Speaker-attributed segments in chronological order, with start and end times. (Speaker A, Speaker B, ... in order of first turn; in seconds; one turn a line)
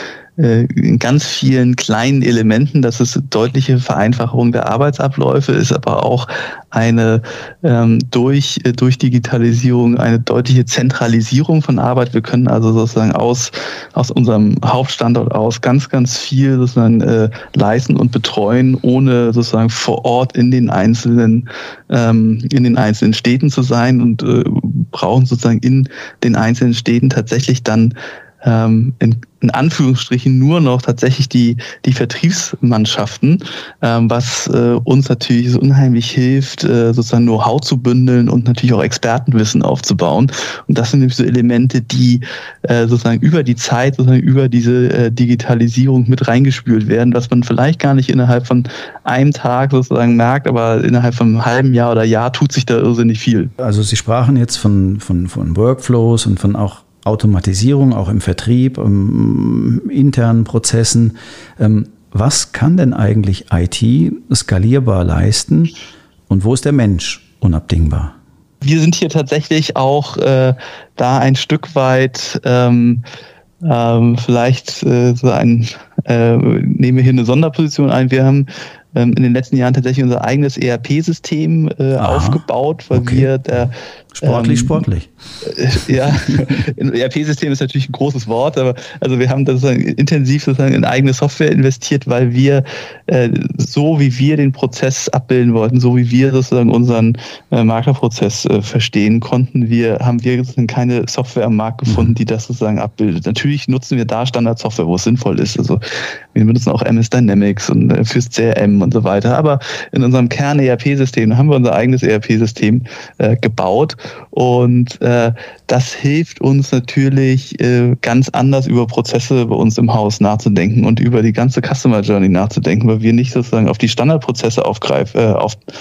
Speaker A: 0.4-53.5
Speaker B: 53.6-65.8
Speaker B: 66.3-68.2
Speaker A: 68.6-73.0
Speaker A: 73.6-84.8
Speaker B: 82.0-83.3
Speaker B: 84.1-85.1
Speaker A: 85.4-105.8
Speaker B: 101.9-102.1
Speaker A: 106.3-125.6